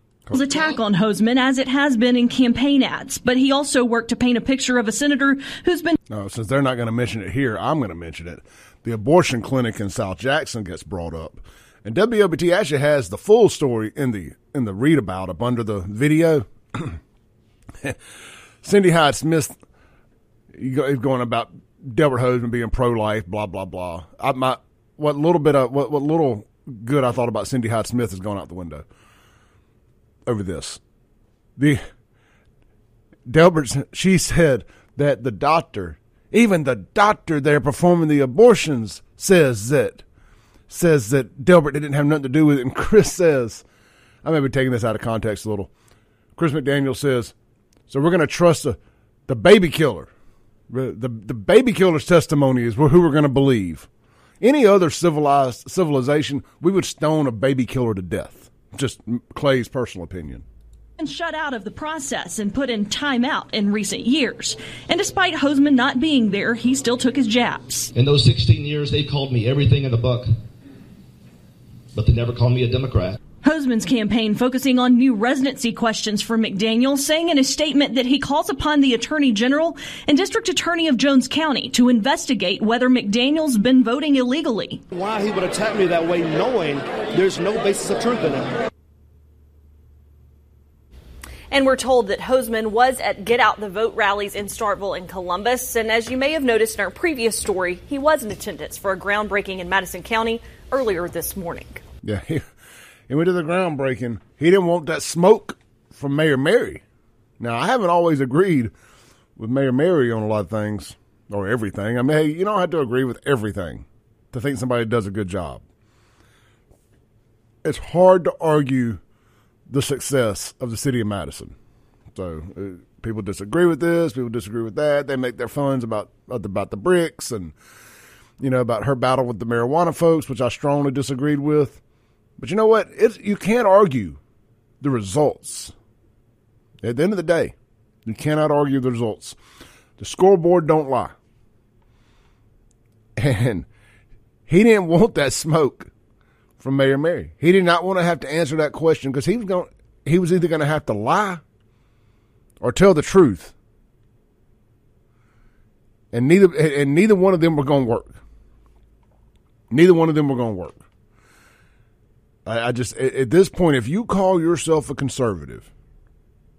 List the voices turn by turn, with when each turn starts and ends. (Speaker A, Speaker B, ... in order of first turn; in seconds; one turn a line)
Speaker A: 0.3-5.9
Speaker B: 6.1-17.0
Speaker B: 18.6-19.6
Speaker B: 20.5-28.8
Speaker B: 30.2-30.8
Speaker B: 31.6-31.8
Speaker B: 33.3-40.0
Speaker B: 40.7-43.6
Speaker B: 44.2-45.7
Speaker B: 46.4-47.3
Speaker B: 47.9-50.1
Speaker B: 50.7-53.9
Speaker B: 54.4-60.4
Speaker A: 61.0-67.9
Speaker C: 67.9-70.3
Speaker C: 71.9-73.2
Speaker A: 73.4-84.8
Speaker D: 84.9-88.5
Speaker E: 91.5-101.8
Speaker B: 102.0-102.4
Speaker B: 103.1-106.8
Speaker B: 107.4-108.7
Speaker B: 109.4-115.6
Speaker B: 117.6-119.0
Speaker B: 119.7-121.5
Speaker B: 122.1-127.5
Speaker B: 128.4-131.8
Speaker B: 132.4-134.2
Speaker B: 134.8-135.7
Speaker B: 136.8-137.5
Speaker B: 138.1-139.4
Speaker B: 140.0-141.1
Speaker B: 143.2-143.7
Speaker B: 144.5-145.9
Speaker B: 146.6-151.4
Speaker B: 152.6-153.5
Speaker B: 156.1-158.2
Speaker B: 159.7-160.8
Speaker B: 162.4-165.7